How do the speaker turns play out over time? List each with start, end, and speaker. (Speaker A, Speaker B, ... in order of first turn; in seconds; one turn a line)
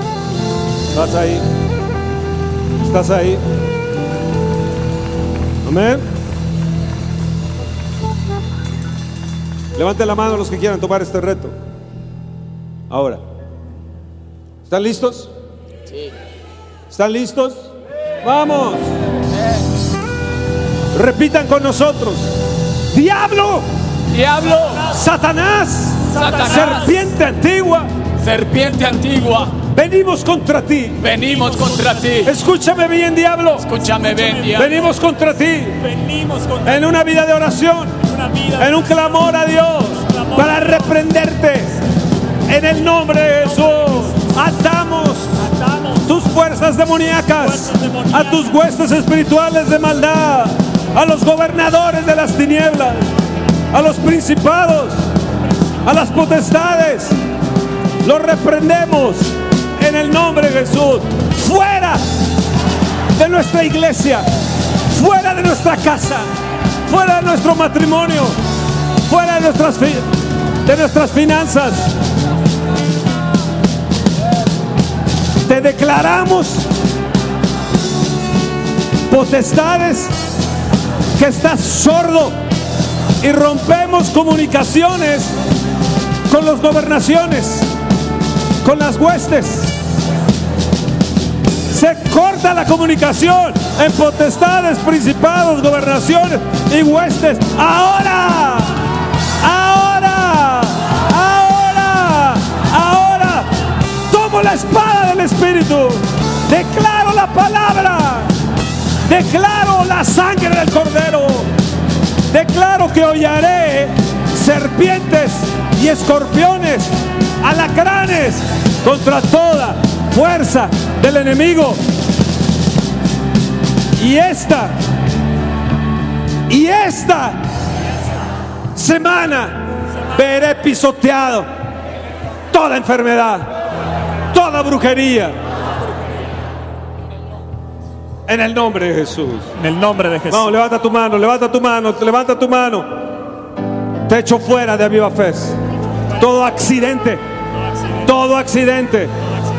Speaker A: 0.9-1.4
Speaker A: 2.8-3.4
Speaker A: 5.6-6.1
Speaker A: 9.7-11.5
Speaker A: 12.9-13.2
Speaker A: 14.6-15.3
Speaker A: 16.9-18.8
Speaker A: 20.9-22.3
Speaker A: 22.9-23.7
Speaker B: 24.1-24.9
Speaker A: 24.9-27.9
Speaker C: 26.1-27.0
Speaker B: 26.1-26.9
Speaker B: 28.2-29.6
Speaker A: 29.6-31.1
Speaker B: 31.0-32.3
Speaker C: 31.2-32.3
Speaker A: 32.2-33.7
Speaker B: 33.6-34.8
Speaker C: 33.8-35.2
Speaker A: 34.5-35.8
Speaker C: 35.7-36.9
Speaker A: 36.6-38.0
Speaker C: 38.0-39.3
Speaker A: 38.6-41.8
Speaker C: 40.0-41.0
Speaker A: 42.5-45.4
Speaker C: 43.4-44.2
Speaker C: 45.4-46.0
Speaker A: 46.0-53.0
Speaker C: 47.2-48.6
Speaker A: 53.7-55.0
Speaker A: 55.8-57.2
Speaker A: 58.0-62.0
Speaker A: 63.1-64.2
Speaker A: 64.9-66.3
Speaker A: 66.8-68.3
Speaker A: 69.0-70.1
Speaker A: 70.6-71.9
Speaker A: 75.4-76.7
Speaker A: 79.1-80.2
Speaker A: 81.2-82.3
Speaker A: 83.2-85.3
Speaker A: 86.3-87.7
Speaker A: 88.6-89.7
Speaker A: 91.7-98.8
Speaker A: 99.4-103.5
Speaker A: 104.1-108.3
Speaker A: 109.0-111.5
Speaker A: 112.3-121.8
Speaker A: 124.0-124.8
Speaker A: 126.5-127.4
Speaker A: 128.7-131.5
Speaker A: 132.5-133.5
Speaker A: 134.3-135.3
Speaker A: 138.3-139.5
Speaker C: 139.6-140.5
Speaker A: 140.3-143.0
Speaker A: 144.1-145.6
Speaker A: 146.2-147.2
Speaker A: 148.0-149.1